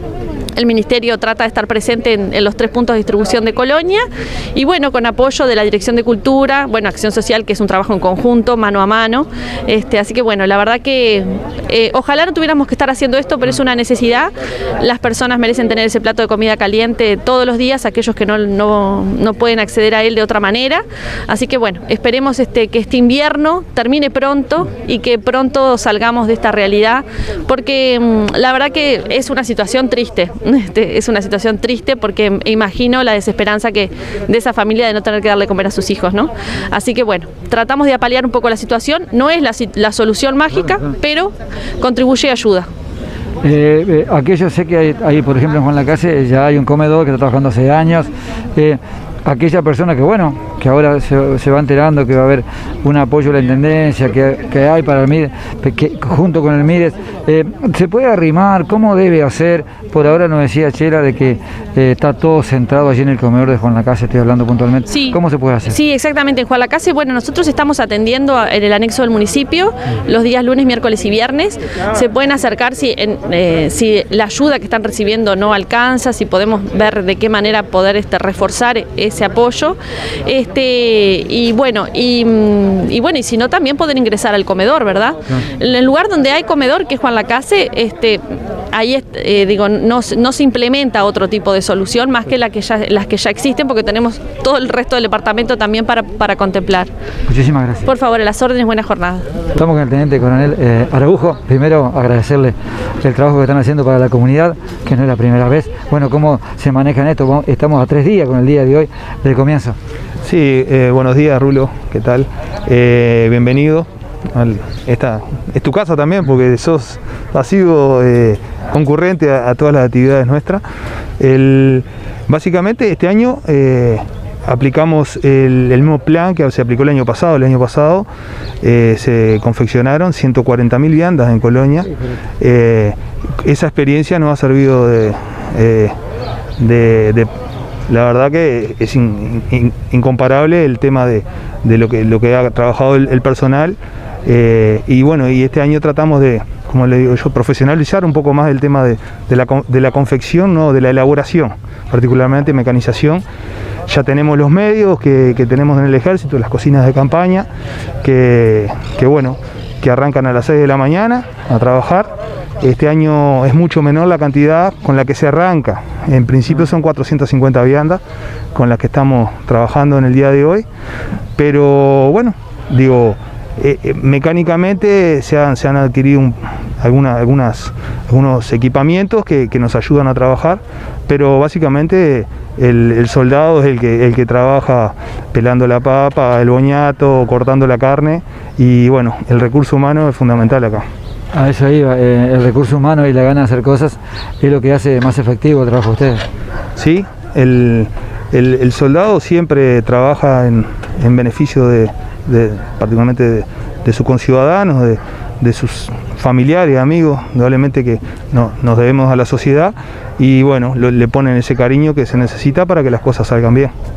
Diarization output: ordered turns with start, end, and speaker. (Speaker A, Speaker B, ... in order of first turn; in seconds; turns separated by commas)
Speaker A: 0.6-42.7, Speaker B: 43.4-65.8, Speaker A: 64.9-96.9, Speaker B: 97.3-97.9, Speaker A: 97.9-99.3, Speaker B: 99.5-109.8, Speaker C: 110.2-120.6, Speaker C: 121.2-128.1, Speaker C: 128.6-135.9, Speaker C: 136.6-137.3, Speaker C: 137.9-153.2, Speaker C: 153.9-157.5, Speaker C: 158.0-168.0, Speaker C: 168.6-170.7, Speaker C: 171.4-190.9, Speaker B: 191.3-196.2, Speaker C: 196.8-213.7